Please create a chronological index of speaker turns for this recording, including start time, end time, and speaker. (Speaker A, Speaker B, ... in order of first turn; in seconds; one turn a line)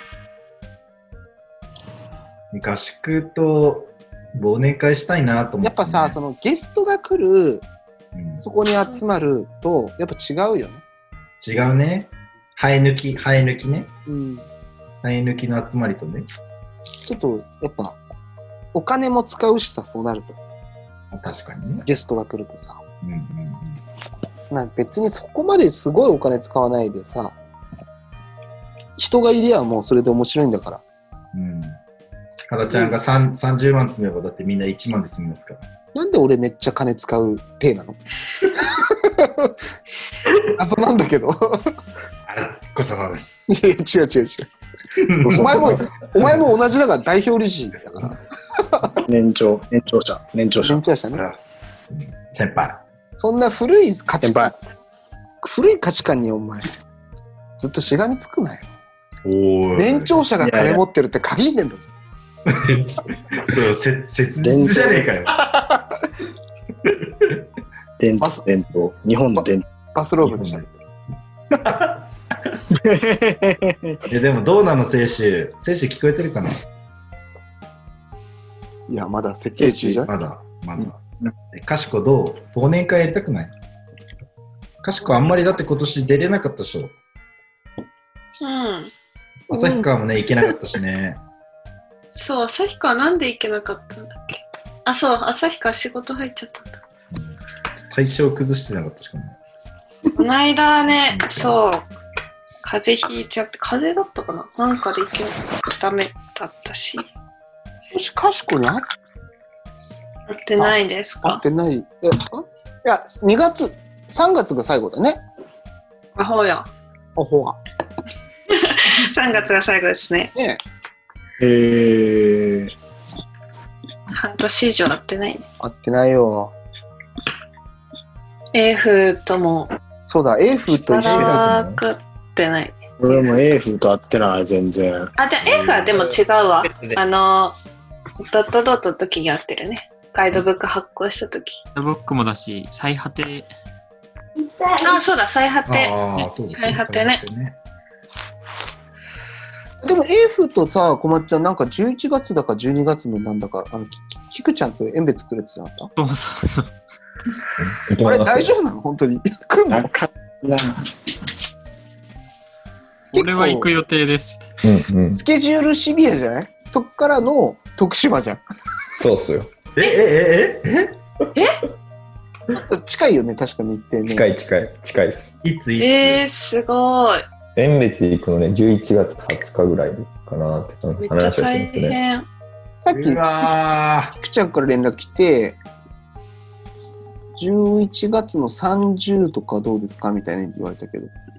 Speaker A: 2.5-6.2
Speaker B: 5.6-7.7
Speaker A: 8.1-8.4
Speaker B: 8.4-10.8
Speaker A: 11.4-13.9
Speaker B: 14.1-14.5
Speaker A: 15.0-16.3
Speaker B: 17.0-18.0
Speaker B: 18.7-20.4
Speaker A: 21.1-21.9
Speaker B: 21.8-22.8
Speaker A: 23.0-23.8
Speaker B: 24.5-27.3
Speaker B: 29.0-30.8
Speaker A: 31.3-31.8
Speaker A: 32.5-35.6
Speaker B: 32.6-32.9
Speaker B: 35.9-38.0
Speaker B: 38.5-39.5
Speaker B: 40.4-41.7
Speaker A: 42.3-43.5
Speaker B: 43.5-44.5
Speaker A: 45.0-45.9
Speaker B: 45.2-49.0
Speaker C: 45.3-45.8
Speaker C: 49.1-50.8
Speaker B: 50.6-51.2
Speaker A: 51.1-52.8
Speaker B: 53.2-54.5
Speaker C: 54.2-54.5
Speaker B: 55.4-56.7
Speaker B: 57.6-58.7
Speaker A: 59.2-60.2
Speaker B: 59.7-61.9
Speaker C: 60.4-60.8
Speaker A: 62.5-62.8
Speaker A: 63.3-65.4
Speaker C: 64.4-65.1
Speaker A: 66.8-67.4
Speaker C: 68.0-69.7
Speaker B: 69.4-70.7
Speaker A: 70.2-70.6
Speaker A: 71.5-72.0
Speaker C: 72.7-74.0
Speaker A: 74.1-76.6
Speaker B: 78.9-80.1
Speaker A: 80.0-81.0
Speaker A: 81.5-83.5
Speaker A: 84.8-86.9
Speaker D: 88.4-88.9
Speaker A: 89.5-91.2
Speaker B: 89.5-89.8
Speaker D: 92.1-96.8
Speaker A: 97.1-97.4
Speaker A: 97.9-99.4
Speaker D: 100.1-101.9
Speaker A: 100.8-101.6
Speaker D: 102.6-107.0
Speaker B: 107.9-108.8
Speaker D: 110.3-111.4
Speaker B: 110.6-115.2
Speaker D: 116.2-116.7
Speaker B: 117.2-117.6
Speaker D: 118.5-120.3
Speaker C: 121.4-122.7
Speaker D: 124.1-125.4
Speaker B: 125.6-126.5
Speaker D: 128.5-129.7
Speaker B: 130.1-131.5
Speaker D: 130.7-133.3
Speaker A: 131.1-131.8
Speaker C: 133.0-135.1
Speaker D: 135.2-137.6
Speaker A: 135.4-136.0
Speaker D: 138.2-141.6
Speaker E: 141.7-143.5
Speaker D: 144.8-147.2
Speaker A: 145.7-147.6
Speaker B: 149.8-155.9
Speaker E: 156.0-156.7
Speaker F: 157.7-158.5
Speaker B: 158.0-159.8
Speaker C: 159.7-160.9
Speaker E: 163.1-164.4
Speaker B: 163.1-163.7
Speaker F: 164.6-165.2
Speaker B: 165.1-168.4
Speaker F: 168.9-169.5
Speaker A: 169.7-171.0
Speaker B: 172.5-174.2
Speaker F: 174.1-175.4
Speaker A: 175.4-176.2
Speaker D: 175.8-177.2
Speaker F: 177.6-182.0
Speaker D: 181.0-182.2
Speaker B: 182.8-183.2
Speaker A: 182.9-184.2
Speaker B: 184.2-185.6
Speaker B: 187.4-191.1